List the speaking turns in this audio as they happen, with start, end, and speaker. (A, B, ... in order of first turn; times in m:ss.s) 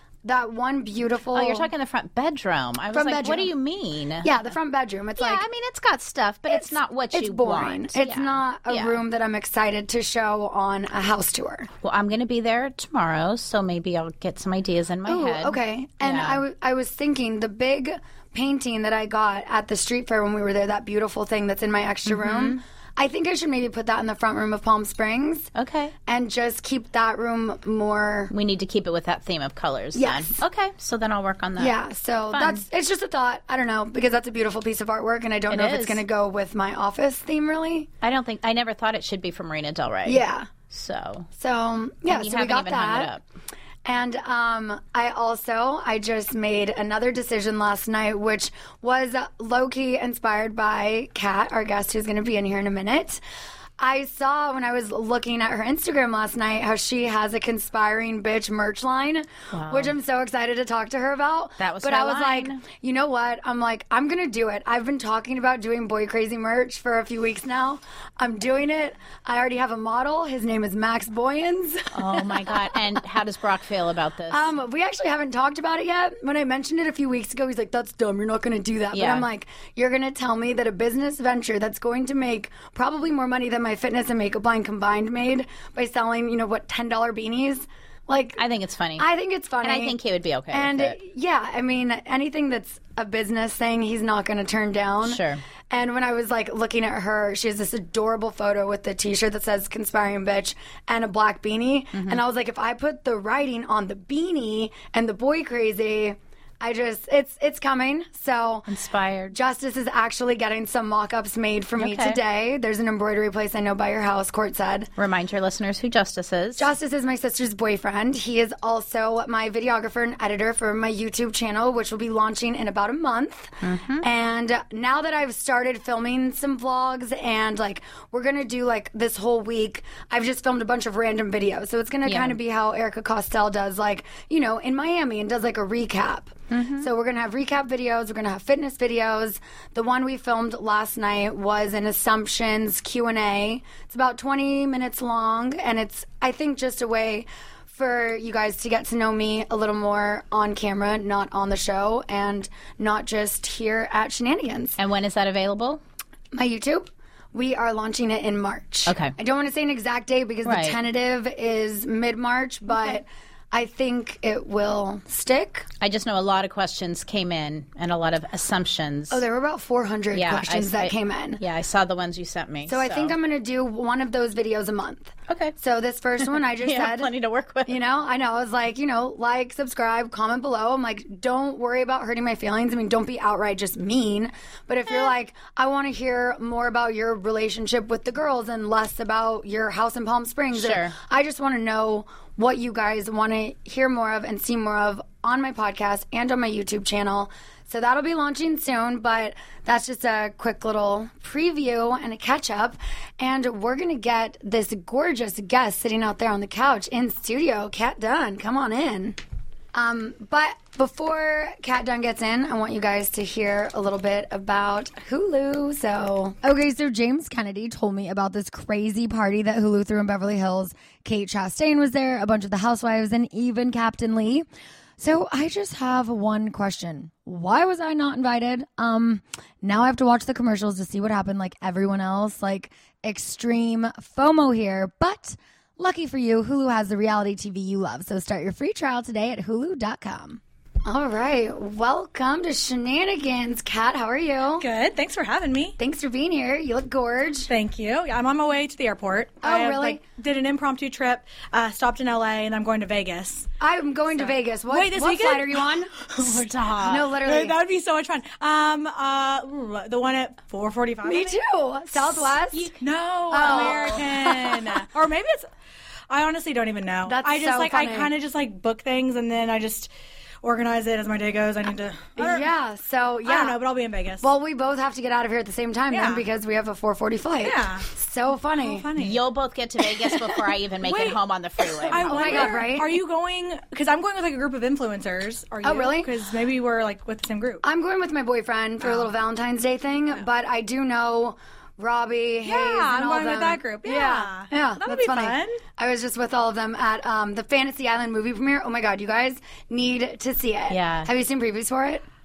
0:00.2-0:01.7 A
0:01.3-0:04.3 B
0:02.9-0:03.5 A
0:04.2-0:05.5 A
0:05.2-0:09.0 B
0:06.5-0:11.7 A
0:11.8-0:16.4 B
0:15.0-0:25.5 A
0:22.0-0:22.6 B
0:25.5-0:25.9 B
0:26.0-0:28.3 A
0:28.3-0:31.7 B
0:29.9-0:30.4 A
0:31.6-0:37.9 A
0:32.3-0:32.6 B
0:35.5-0:36.0 B
0:38.0-0:41.3 B
0:40.0-0:40.5 A
0:41.4-0:43.1 A
0:42.1-0:43.2 B
0:43.8-0:53.2 A
0:53.8-1:12.8 A
0:59.5-0:59.9 B
1:01.6-1:02.6 B
1:11.9-1:14.5 B
1:14.3-1:28.4 A
1:18.9-1:19.3 B
1:28.4-1:29.1 B
1:29.0-1:30.0 A
1:29.6-1:31.0 B
1:30.5-1:48.7 A
1:35.0-1:35.4 B
1:41.9-1:42.2 B
1:48.7-1:49.4 B
1:49.3-1:54.9 A
1:51.8-1:52.2 B
1:55.0-1:56.7 B
1:56.6-2:34.8 A
2:03.6-2:04.0 B
2:12.0-2:12.4 B
2:16.5-2:16.9 B
2:34.8-2:35.8 B
2:36.3-2:45.7 A
2:38.8-2:39.1 B
2:40.4-2:40.8 B
2:45.8-2:49.2 B
2:49.1-2:51.4 A
2:50.1-2:53.1 B
2:52.7-2:57.1 A
2:55.3-2:55.5 B
2:56.3-2:57.8 B
2:57.6-3:29.2 A
3:10.5-3:10.9 B
3:29.7-3:44.5 A
3:45.0-4:04.7 A
4:04.6-4:05.8 C
4:05.8-4:07.5 A
4:07.5-4:13.5 C
4:09.4-4:10.0 A
4:13.6-4:16.0 A
4:14.2-4:21.4 C
4:16.3-4:16.9 B
4:16.8-4:17.6 A
4:21.0-4:22.7 A
4:22.0-4:25.5 C
4:23.3-4:24.8 A
4:23.4-4:23.8 B
4:26.1-4:29.9 C
4:27.0-4:28.1 A
4:30.4-4:32.5 C
4:32.2-4:33.6 A
4:33.2-4:34.2 C
4:34.2-4:38.9 A
4:35.9-4:36.2 C
4:37.4-4:37.8 C
4:38.5-4:39.2 C
4:39.0-4:42.5 B
4:40.8-4:41.2 C
4:41.8-4:47.6 C
4:41.9-4:43.0 A
4:45.6-4:46.1 A
4:47.6-5:02.0 A
4:48.8-4:49.1 C
4:52.4-4:55.6 C
5:00.7-5:01.1 B